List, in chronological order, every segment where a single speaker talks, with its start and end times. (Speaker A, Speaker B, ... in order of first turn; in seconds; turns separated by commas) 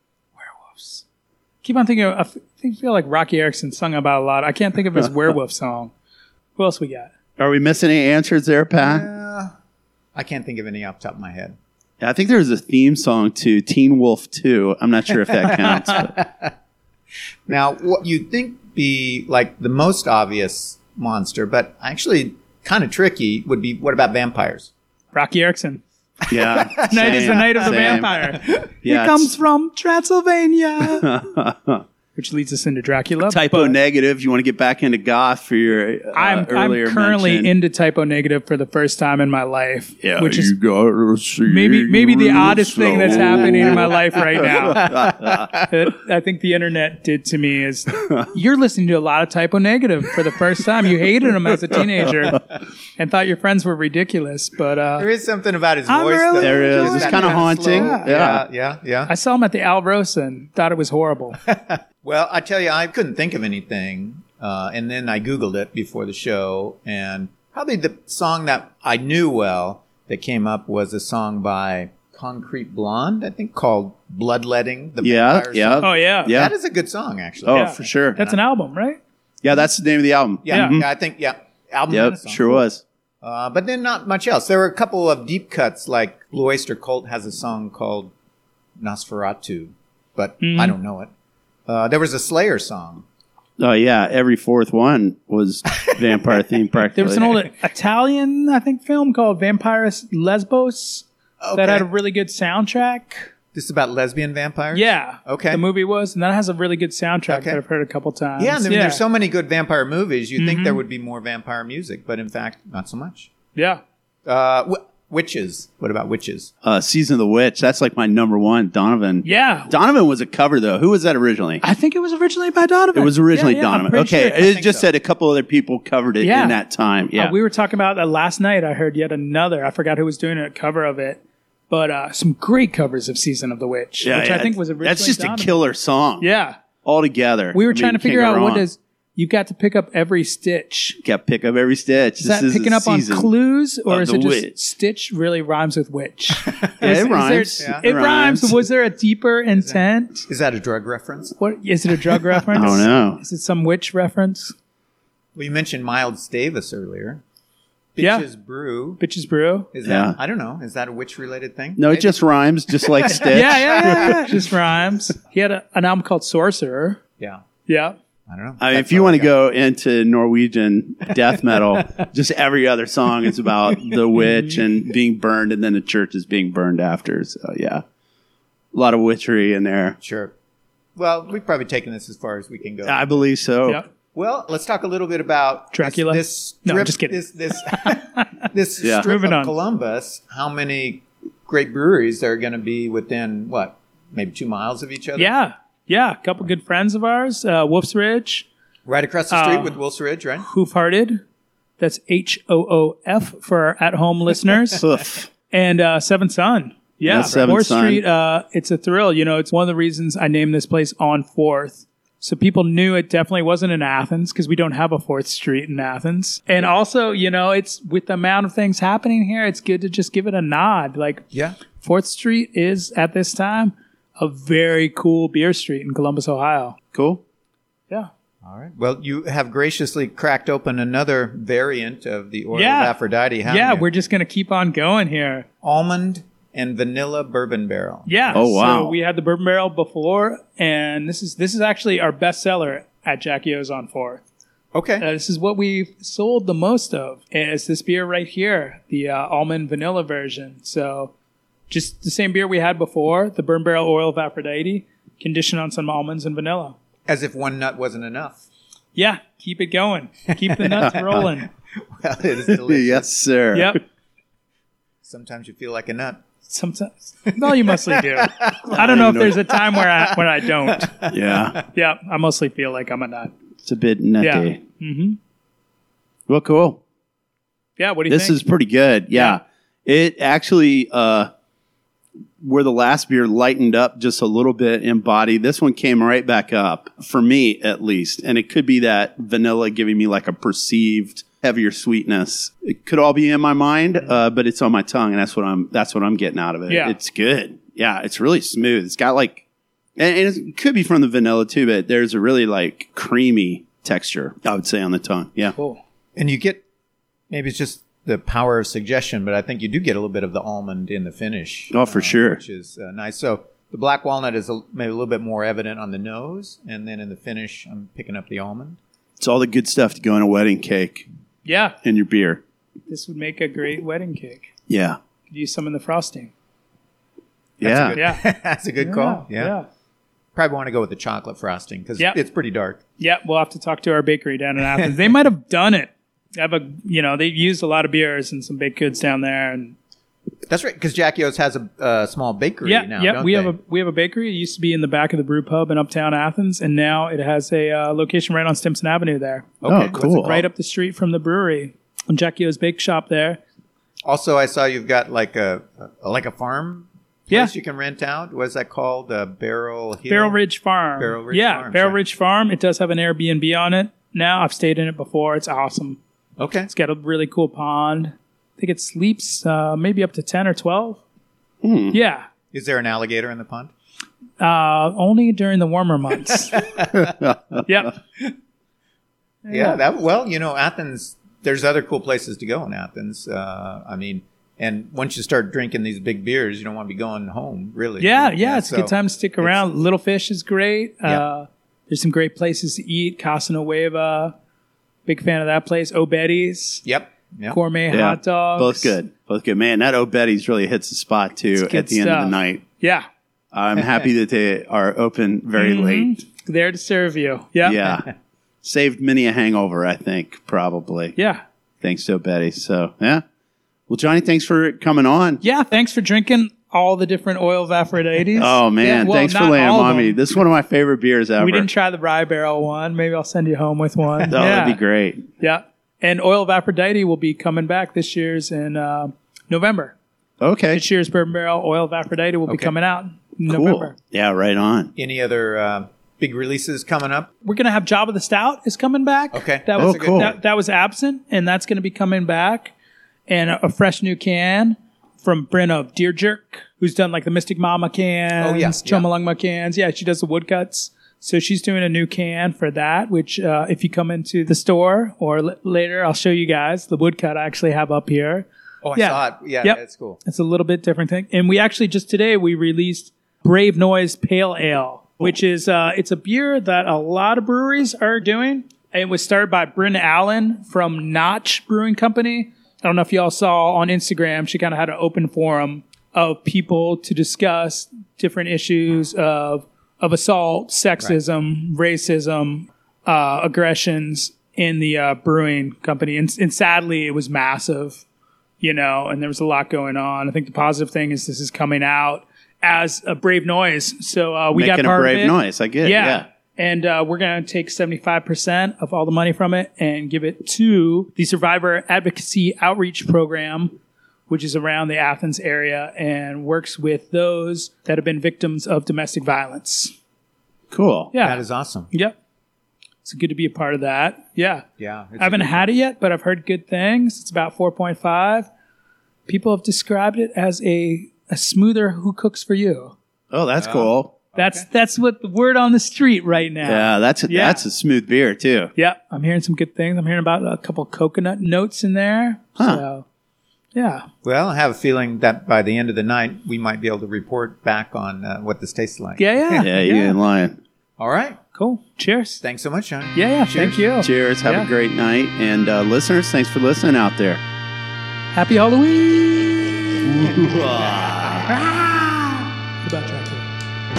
Speaker A: 0.4-1.0, Speaker A: 1.6-5.9, Speaker A: 6.6-7.1, Speaker B: 7.4-9.1, Speaker C: 8.8-9.5, Speaker C: 10.1-11.6, Speaker B: 12.0-16.1, Speaker C: 15.3-16.5, Speaker C: 17.5-24.7, Speaker A: 25.1-25.8, Speaker B: 26.3-29.3, Speaker C: 26.3-28.6, Speaker A: 26.8-31.1, Speaker B: 30.8-31.8, Speaker A: 32.1-33.7, Speaker B: 33.3-37.5, Speaker A: 36.1-40.5, Speaker B: 40.0-45.6, Speaker A: 41.5-52.4, Speaker C: 44.9-45.5, Speaker B: 47.9-48.3, Speaker A: 53.0-55.1, Speaker C: 55.0-59.1, Speaker A: 55.9-58.2, Speaker B: 56.4-58.4, Speaker A: 59.1-61.4, Speaker C: 61.4-78.4, Speaker B: 75.0-76.5, Speaker A: 75.8-76.3, Speaker B: 77.4-78.2, Speaker A: 77.5-79.0, Speaker B: 79.4-80.9, Speaker C: 80.4-82.6, Speaker A: 80.5-80.8, Speaker B: 81.9-82.8, Speaker C: 83.2-88.1, Speaker C: 88.8-91.1, Speaker A: 90.4-90.8, Speaker C: 91.7-93.0, Speaker B: 93.6-97.5, Speaker A: 96.9-103.3, Speaker C: 101.4-101.9, Speaker C: 103.5-105.6, Speaker A: 104.7-109.0, Speaker C: 107.3-107.6, Speaker C: 108.4-113.3, Speaker A: 110.4-110.8, Speaker A: 113.5-113.8, Speaker C: 114.2-116.5, Speaker B: 116.6-121.6, Speaker A: 119.2-119.7, Speaker A: 121.6-124.3, Speaker B: 122.9-127.3, Speaker C: 123.9-124.9, Speaker A: 126.2-126.6, Speaker A: 127.2-135.6, Speaker B: 134.0-136.2, Speaker A: 136.2-136.6, Speaker B: 136.8-138.6, Speaker A: 137.5-141.0, Speaker B: 141.0-143.3, Speaker A: 142.2-150.2, Speaker B: 143.9-144.5, Speaker B: 146.8-148.6, Speaker C: 147.6-147.9, Speaker C: 149.6-151.4, Speaker A: 151.4-154.5, Speaker B: 152.5-153.2, Speaker C: 155.3-157.2, Speaker C: 157.9-159.0, Speaker A: 158.0-158.2, Speaker A: 159.0-159.7, Speaker C: 159.7-162.2, Speaker B: 159.8-160.2, Speaker B: 161.8-164.3, Speaker C: 162.8-163.2, Speaker A: 163.3-167.0, Speaker A: 167.7-168.0, Speaker C: 168.3-169.3, Speaker B: 168.6-177.8, Speaker A: 174.2-174.6, Speaker B: 178.7-180.0, Speaker C: 180.0-180.3, Speaker C: 180.9-183.2, Speaker B: 182.8-183.8, Speaker C: 184.1-195.3, Speaker A: 185.7-188.4, Speaker A: 189.0-189.5, Speaker A: 195.2-198.5, Speaker C: 198.9-200.4, Speaker A: 199.3-199.8, Speaker A: 200.4-201.2, Speaker A: 201.8-204.8, Speaker B: 204.8-205.3, Speaker A: 205.5-226.8, Speaker B: 207.0-208.0, Speaker C: 221.3-221.6, Speaker B: 226.9-227.2, Speaker C: 228.4-233.8, Speaker A: 232.5-232.9, Speaker A: 233.4-235.4, Speaker C: 235.6-238.5, Speaker A: 238.1-244.2, Speaker B: 238.3-238.9, Speaker C: 244.7-245.1, Speaker A: 245.0-251.1, Speaker A: 251.7-256.8, Speaker C: 257.1-258.4, Speaker A: 258.9-261.5, Speaker C: 260.5-261.2, Speaker C: 261.8-263.1, Speaker B: 262.5-263.8, Speaker A: 263.5-263.8, Speaker C: 265.0-266.2, Speaker A: 266.5-271.1, Speaker C: 267.3-271.5, Speaker B: 268.7-269.3, Speaker B: 271.1-271.6, Speaker A: 271.7-273.3, Speaker B: 273.6-274.6, Speaker A: 274.2-275.2, Speaker B: 276.3-276.8, Speaker A: 277.8-278.4, Speaker B: 278.1-281.3, Speaker A: 279.1-279.4, Speaker B: 282.4-299.4, Speaker A: 296.7-296.9, Speaker B: 300.0-305.5, Speaker A: 305.5-305.8, Speaker C: 306.1-306.6, Speaker C: 307.3-318.8, Speaker B: 311.7-312.4, Speaker B: 319.2-321.1, Speaker A: 321.4-321.7, Speaker B: 321.8-322.4, Speaker A: 322.9-324.5, Speaker B: 324.7-325.0, Speaker A: 325.3-326.3, Speaker B: 327.6-328.0, Speaker C: 327.6-329.5, Speaker A: 327.9-328.2, Speaker A: 328.8-329.7, Speaker C: 330.3-332.8, Speaker A: 333.0-339.8, Speaker C: 340.5-343.5, Speaker A: 342.6-353.4, Speaker C: 349.6-350.5, Speaker B: 349.7-350.3, Speaker C: 354.0-360.4, Speaker A: 360.1-366.0, Speaker C: 361.0-362.0, Speaker C: 366.4-366.7, Speaker A: 366.7-371.0, Speaker B: 371.6-371.9, Speaker A: 371.9-372.2, Speaker C: 372.5-373.7, Speaker A: 374.4-376.6, Speaker B: 376.9-377.6, Speaker A: 377.7-377.9, Speaker A: 379.4-379.8, Speaker C: 379.5-389.6, Speaker A: 388.0-394.3, Speaker A: 395.1-396.8, Speaker C: 396.8-397.6, Speaker A: 397.5-398.9, Speaker B: 397.9-402.6, Speaker A: 401.6-403.1, Speaker B: 403.5-406.1, Speaker A: 405.6-408.0, Speaker B: 407.6-408.1, Speaker B: 408.6-411.1, Speaker A: 411.1-411.4, Speaker B: 411.8-413.2, Speaker B: 413.9-415.4, Speaker A: 415.4-420.2, Speaker B: 418.4-421.7, Speaker A: 421.4-424.8, Speaker B: 424.3-425.3, Speaker A: 425.4-429.9, Speaker B: 430.4-430.8, Speaker A: 430.7-433.9, Speaker C: 432.5-432.7, Speaker B: 433.5-434.9, Speaker C: 434.9-437.3, Speaker A: 437.4-442.7, Speaker C: 439.3-440.3, Speaker B: 439.8-440.3, Speaker A: 443.3-488.0, Speaker C: 448.4-449.1, Speaker C: 458.8-460.2, Speaker A: 488.6-503.8, Speaker B: 494.5-496.2, Speaker A: 504.3-509.9, Speaker B: 510.7-511.1, Speaker A: 511.1-512.1, Speaker C: 511.2-511.9, Speaker A: 513.0-514.6, Speaker C: 514.8-515.7, Speaker A: 515.2-518.5, Speaker A: 519.3-522.9, Speaker B: 523.3-524.1, Speaker C: 523.6-524.6, Speaker A: 524.3-527.6, Speaker B: 526.6-528.7, Speaker A: 528.8-533.0, Speaker B: 532.6-532.8, Speaker A: 533.7-534.0, Speaker C: 534.2-539.3, Speaker A: 539.2-540.2, Speaker B: 539.5-540.6, Speaker C: 541.0-541.4, Speaker A: 541.5-542.4, Speaker C: 542.4-543.9, Speaker A: 543.1-544.7, Speaker B: 544.0-547.4, Speaker A: 548.3-550.0, Speaker B: 550.0-551.5, Speaker A: 551.5-553.5